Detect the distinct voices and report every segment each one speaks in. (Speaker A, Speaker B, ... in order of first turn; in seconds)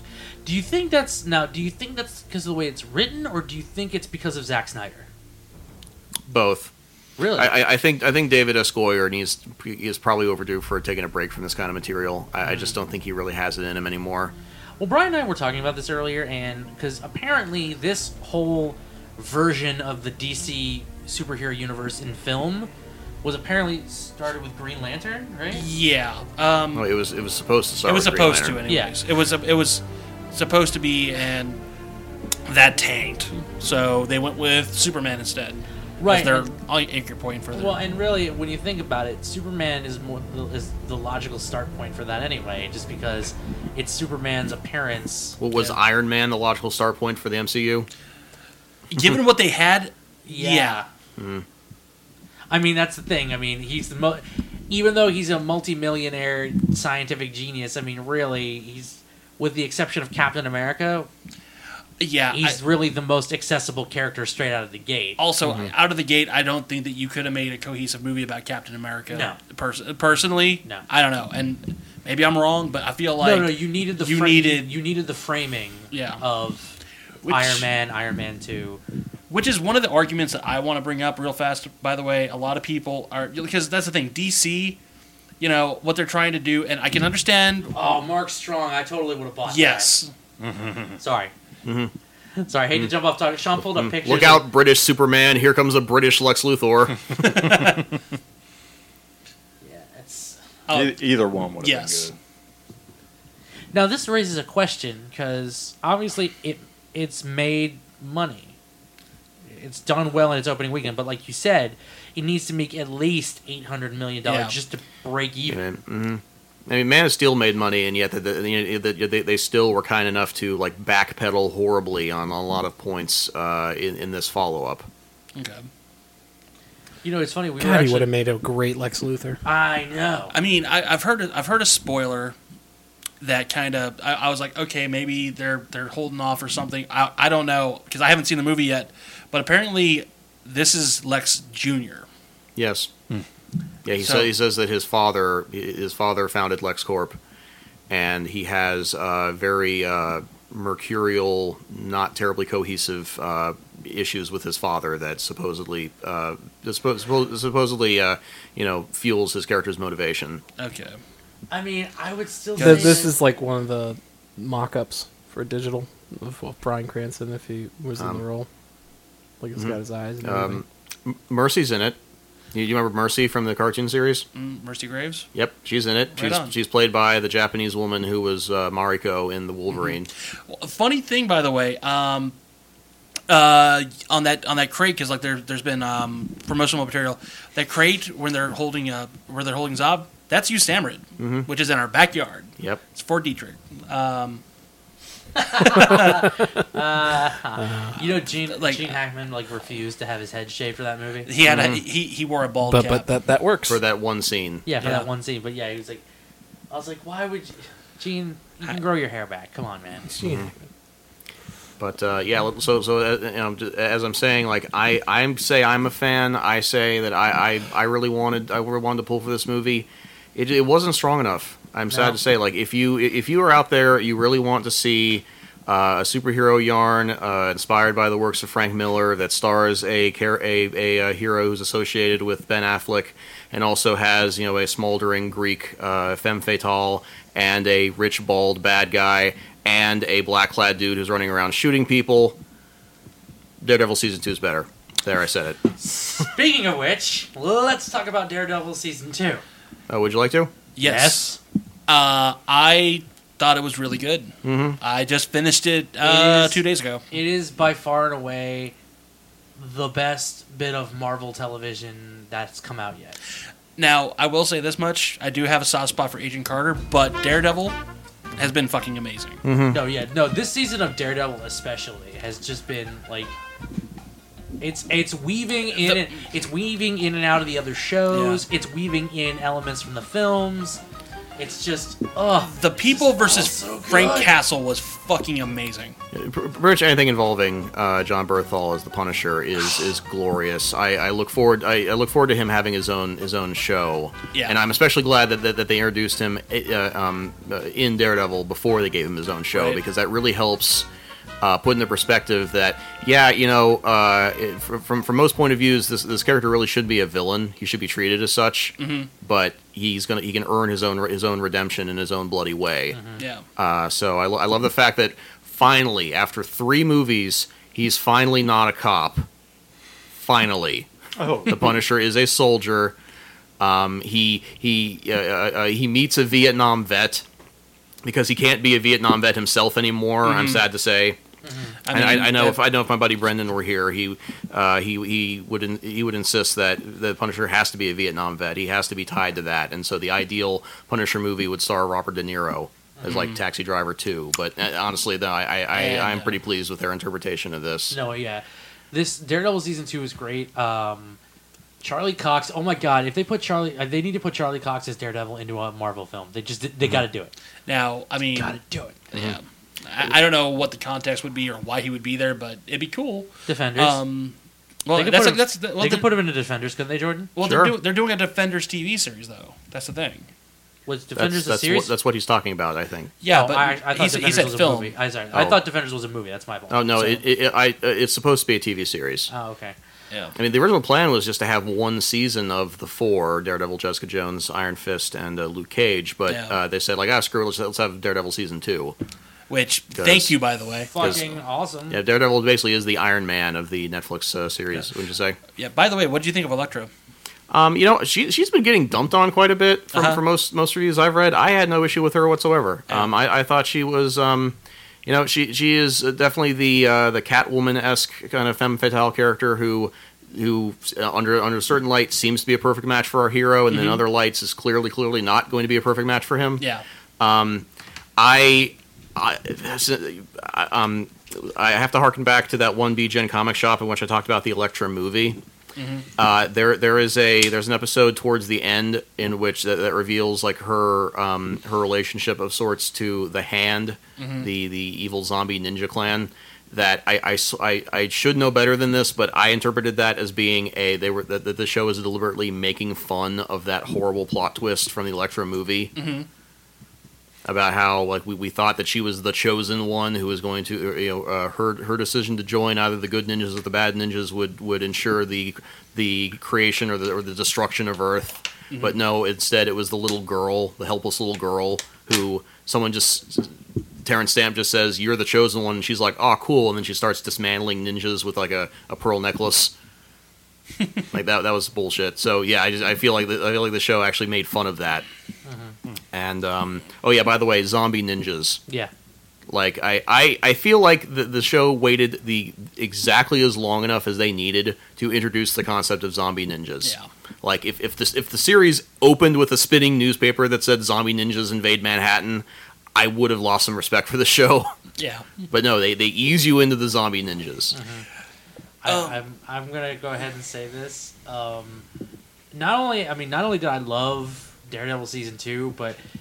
Speaker A: 0.4-5.1, 7.2-7.5, 12.4-12.7, 14.8-22.7, 23.2-25.6, 28.7-28.9, 36.0-36.5, 37.5-45.4, 50.2-50.9, 52.5-61.1, 62.3-65.2, 69.1-69.4, 73.2-78.8, 87.7-89.9, 91.0-91.3, 92.4-94.5, 99.6-100.4, 103.7-108.5, 109.5-115.6, 127.0-128.1, 129.4-130.3, 161.5-163.1, 195.4-201.3, 204.7-206.0, 206.7-210.1, 221.9-222.2, 245.8-249.4, 250.8-251.4, 256.0-258.7, 259.6-263.2, 269.7-273.3, 274.6-280.8, 281.4-284.3, 312.9-313.2, 331.4-331.8, 345.8-346.3, 347.9-351.2, 351.8-357.3, 358.4-359.0, 363.4-364.0, 364.9-367.3, 370.9-371.9, 373.3-377.2, 379.3-379.8, 390.9-392.0, 475.4-475.7, 497.7-498.1, 498.8-501.8, 502.5-506.0
Speaker B: 6.3-6.7, 7.3-14.3, 26.7-28.6, 45.4-47.9, 51.2-51.4, 65.4-65.7, 91.6-91.9, 93.7-97.0, 115.5-124.9, 142.6-142.9, 143.8-147.2, 147.9-160.4, 168.0-168.2, 169.6-172.0, 172.5-174.2, 175.3-180.1, 191.2-191.5, 201.4-201.8, 203.7-204.7, 210.2-210.5, 211.8-242.4, 243.6-245.6, 249.9-250.5, 254.4-254.8, 269.4-269.8, 286.1-300.9, 301.4-313.0, 313.6-319.2, 320.2-320.9, 321.4-322.9, 323.6-327.2, 328.0-331.2, 331.9-348.0, 367.4-367.7, 371.1-373.1, 375.3-375.6, 376.7-379.3, 380.4-388.9, 389.9-390.4, 391.0-391.2, 391.9-395.4, 397.5-416.6, 417.2-417.6, 418.2-425.4, 426.2-445.9, 447.4-463.5, 464.0-469.7, 471.1-475.1, 476.1-478.6, 479.5-494.7, 495.5-497.7
Speaker C: 25.5-26.9, 27.8-31.6, 32.5-37.8, 48.9-50.8, 62.0-62.6, 65.2-74.7, 75.9-76.2, 77.2-77.7, 79.3-84.8, 85.4-87.7, 89.5-90.1, 97.2-97.8, 100.7-101.0, 101.6-102.1, 114.2-114.5, 125.3-125.7, 130.3-132.3, 133.2-142.1, 143.9-144.3, 160.6-161.0, 162.6-163.1, 174.3-175.3, 176.1-176.5, 180.5-182.3, 183.3-194.4, 195.6-196.2, 198.0-199.0, 201.2-203.1, 204.8-205.1, 250.8-251.3, 251.9-257.0, 263.8-267.8, 268.4-269.4, 275.7-276.2, 278.1-278.4, 282.4-285.9, 299.5-299.8, 308.8-309.1, 313.2-313.4, 330.2-330.6, 331.8-332.6, 343.1-343.4, 357.6-358.6, 359.1-366.1, 367.4-370.3, 373.2-374.9, 386.3-386.6, 389.5-391.3, 395.6-396.9, 399.9-400.2, 413.7-414.0, 416.6-416.8, 425.8-426.1, 434.2-434.5, 445.9-446.3, 458.7-459.0, 486.8-487.1, 495.0-495.4, 498.8-499.2
Speaker D: 100.7-102.1, 321.2-321.7
Speaker E: 127.6-129.4, 162.6-168.5, 169.4-170.6, 197.6-197.9, 202.6-203.8, 210.1-210.5